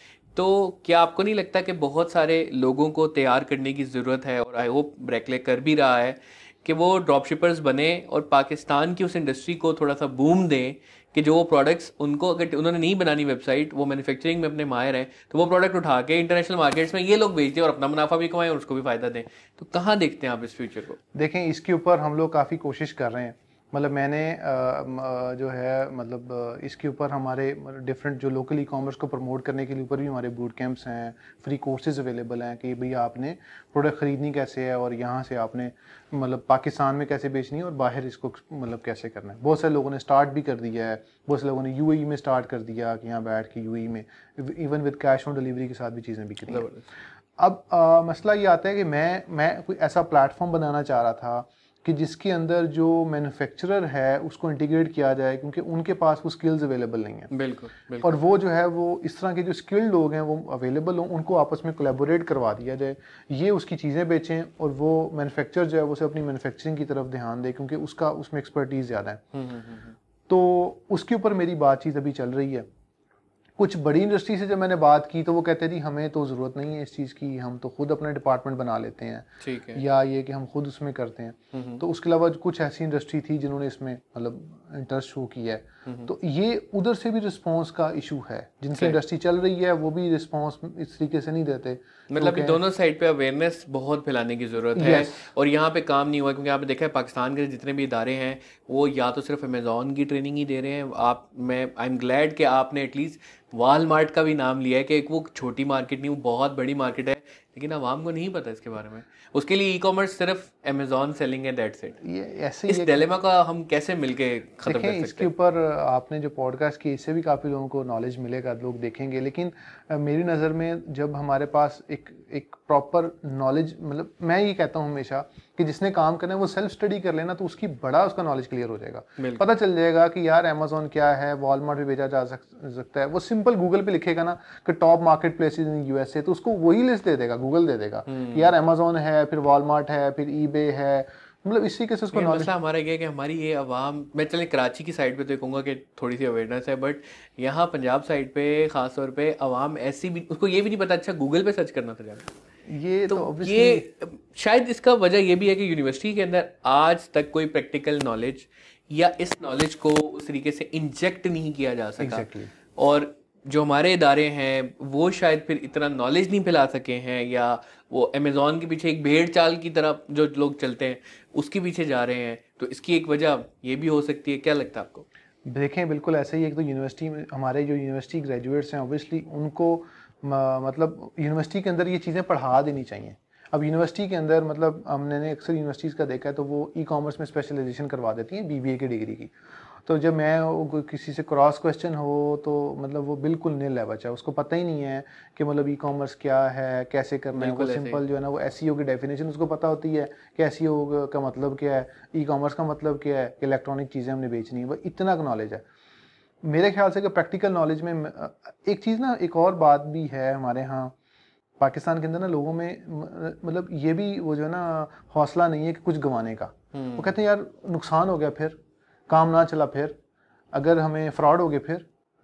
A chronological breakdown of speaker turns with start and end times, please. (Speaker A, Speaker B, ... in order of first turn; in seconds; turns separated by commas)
Speaker A: 0.3-21.0, Speaker B: 21.1-46.7, Speaker A: 46.5-46.8, Speaker B: 47.4-57.3, Speaker A: 57.3-58.2, Speaker B: 58.0-69.2, Speaker A: 69.3-70.0, Speaker B: 70.3-72.7, Speaker B: 73.6-92.6, Speaker A: 79.4-79.8, Speaker A: 81.5-81.8, Speaker A: 85.9-86.1, Speaker A: 88.7-89.0, Speaker A: 92.1-112.0, Speaker B: 94.8-95.3, Speaker B: 112.0-113.0, Speaker A: 112.7-115.3, Speaker B: 114.7-142.5, Speaker A: 129.2-129.5, Speaker A: 138.1-138.5, Speaker A: 142.1-152.3, Speaker B: 152.7-153.9, Speaker A: 153.1-175.1, Speaker B: 162.0-162.5, Speaker B: 175.5-189.3, Speaker B: 189.9-205.6, Speaker A: 197.3-198.0, Speaker B: 206.4-210.9, Speaker B: 211.6-218.6, Speaker A: 216.7-217.1, Speaker B: 219.1-220.0, Speaker B: 220.5-221.9